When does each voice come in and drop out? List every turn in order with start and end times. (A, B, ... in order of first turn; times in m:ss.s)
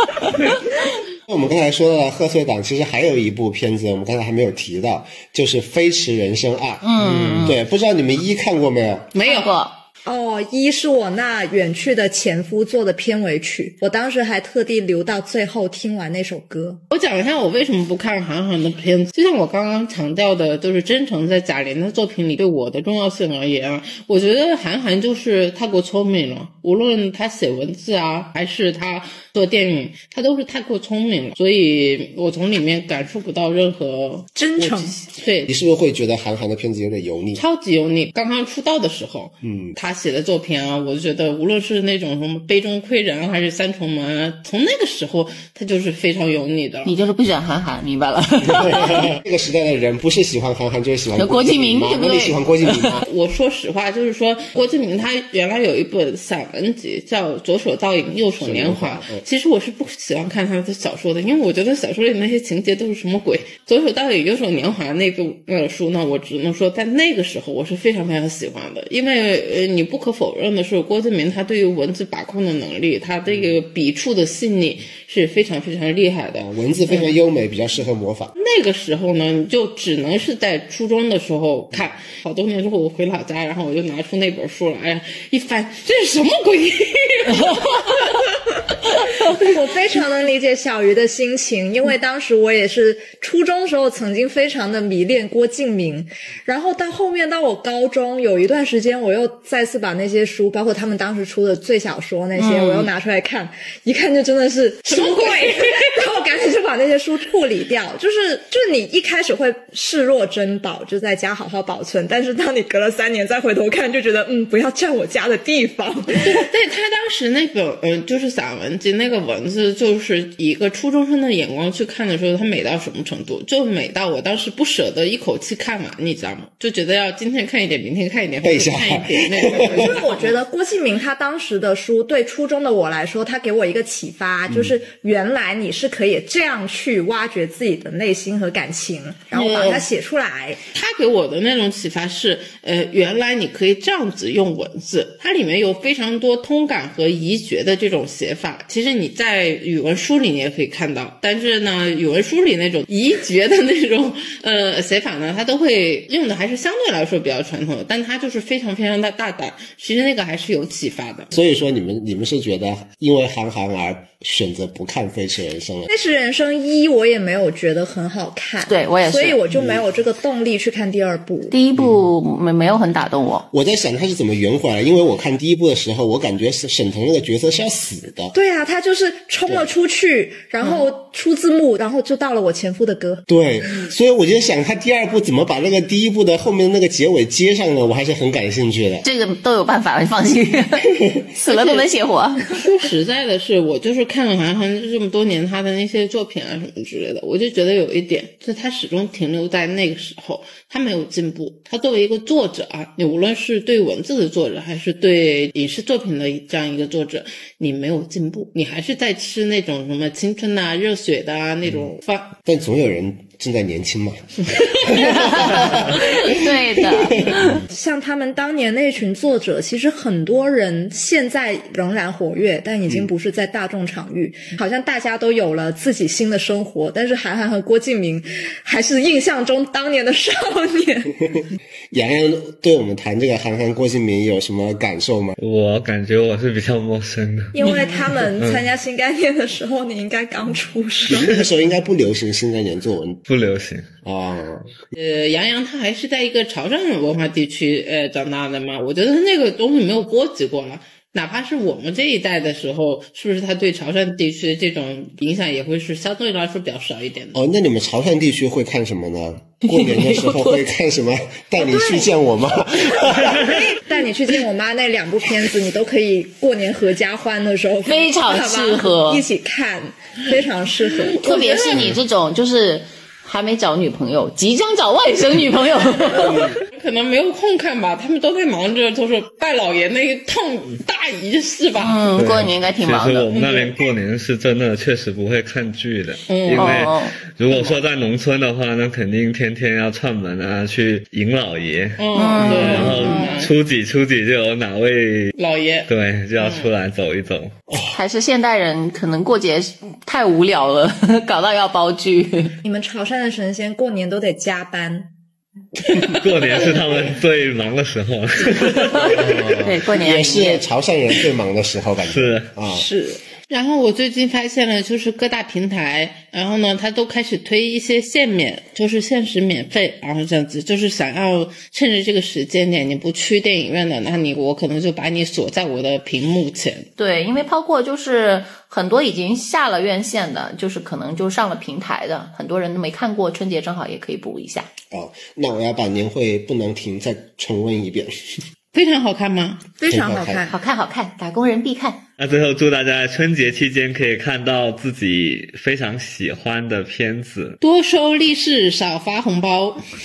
0:01.3-0:06.9 A
0:06.8-0:07.6 B
0:07.0-0:07.4 C
0:07.4-0:09.1 A
0:09.1-0:09.5 D
0:09.2-0:09.8 B
0:10.1-0:16.8 E
0:16.9-0:35.5 D
0:34.4-0:35.0 E
0:35.5-0:37.4 A
0:37.4-0:47.0 D
0:39.4-0:39.8 A
0:46.8-0:49.1 B
0:48.4-0:53.1 A
0:51.1-0:53.0 B
0:53.0-1:17.2 D
0:58.4-0:59.2 A
1:16.5-1:18.3 A
1:18.4-1:28.3 D
1:29.3-1:56.4 E
1:42.4-1:42.9 B
1:44.8-1:46.0 D
1:56.2-2:10.4 D
2:08.4-2:09.8 A
2:09.8-2:20.6 E
2:14.5-2:14.7 A
2:19.3-2:19.9 D
2:20.7-2:41.3 D
2:41.3-2:45.9 A
2:45.9-2:51.6 E
2:48.6-2:49.4 B
2:49.5-2:49.8 A
2:51.5-2:53.5 B
2:53.5-2:58.3 A
2:58.3-3:03.2 E
3:03.3-3:09.1 A
3:09.0-3:12.5 B
3:11.4-3:11.9 D
3:12.5-3:32.3 D
3:32.4-3:36.3 A
3:34.9-3:37.6 B
3:36.9-3:37.4 A
3:37.7-3:51.4 E
3:51.9-3:55.4 A
3:55.4-3:58.7 C
3:57.5-4:01.4 E
3:57.6-3:58.1 D
4:01.1-4:03.2 A
4:03.3-4:03.9 C
4:04.0-4:04.8 A
4:05.0-4:17.4 D
4:17.3-4:23.6 A
4:19.7-4:20.6 B
4:21.6-4:22.2 E
4:23.4-4:31.5 E
4:27.8-4:29.2 B
4:31.1-4:31.9 D
4:31.2-4:36.6 B
4:36.2-4:42.2 D
4:41.8-4:43.3 B
4:42.2-4:55.3 C
4:43.3-4:43.8 D
4:46.3-4:46.8 D
4:46.5-4:47.1 B
4:47.5-4:47.8 D
4:52.0-4:53.5 D
4:52.1-4:53.0 B
4:52.9-4:53.4 E
4:55.4-4:56.7 D
4:55.9-4:57.5 C
4:57.7-4:58.0 A
4:57.9-5:02.6 B
5:02.6-5:05.1 E
5:06.1-5:09.2 C
5:08.6-5:10.6 B
5:09.1-5:12.9 A
5:12.0-5:12.5 C
5:12.6-5:13.2 E
5:13.5-5:26.9 D
5:27.0-5:34.7 B
5:34.9-5:38.4 A
5:38.7-5:39.6 D
5:39.8-5:40.6 E
5:39.9-5:40.5 A
5:40.5-5:42.0 B
5:42.2-5:47.6 C
5:47.6-5:49.8 D